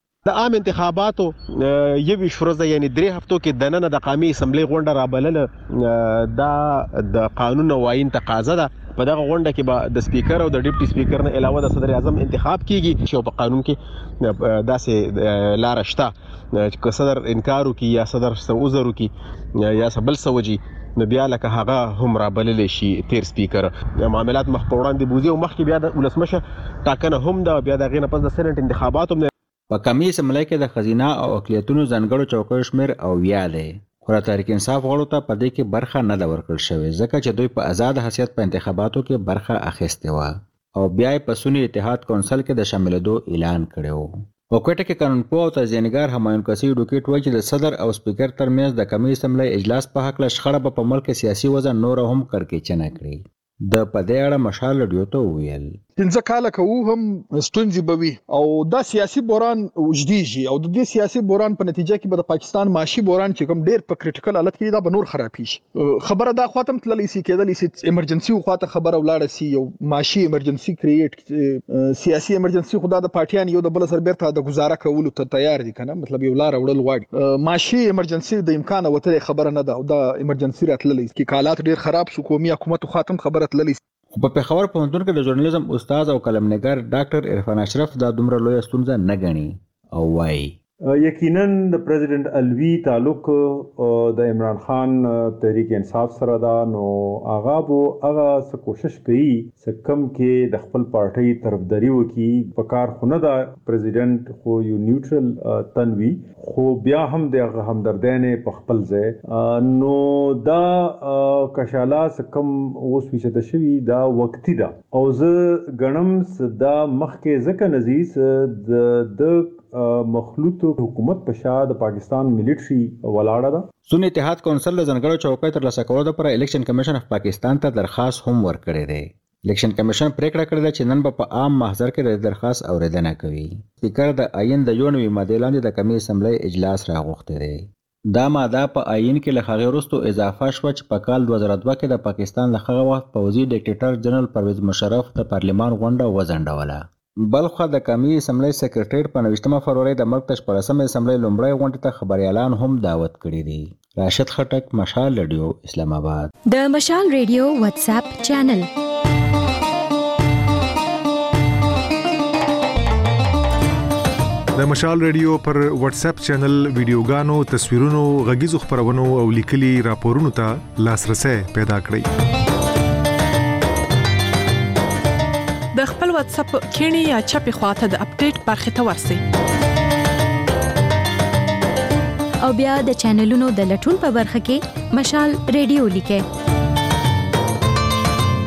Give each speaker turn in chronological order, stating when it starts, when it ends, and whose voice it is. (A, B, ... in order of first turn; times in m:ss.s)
0:00.2-0:19.1 A
0:19.6-0:29.3 A
0:29.7-0:55.8 B
0:56.0-1:23.8 C
1:24.1-1:30.6 B
1:30.9-2:03.7 D
2:03.9-2:36.3 B
2:36.5-2:38.7 E
2:44.6-2:52.0 F
2:55.7-2:59.2 G
3:02.4-3:06.2 E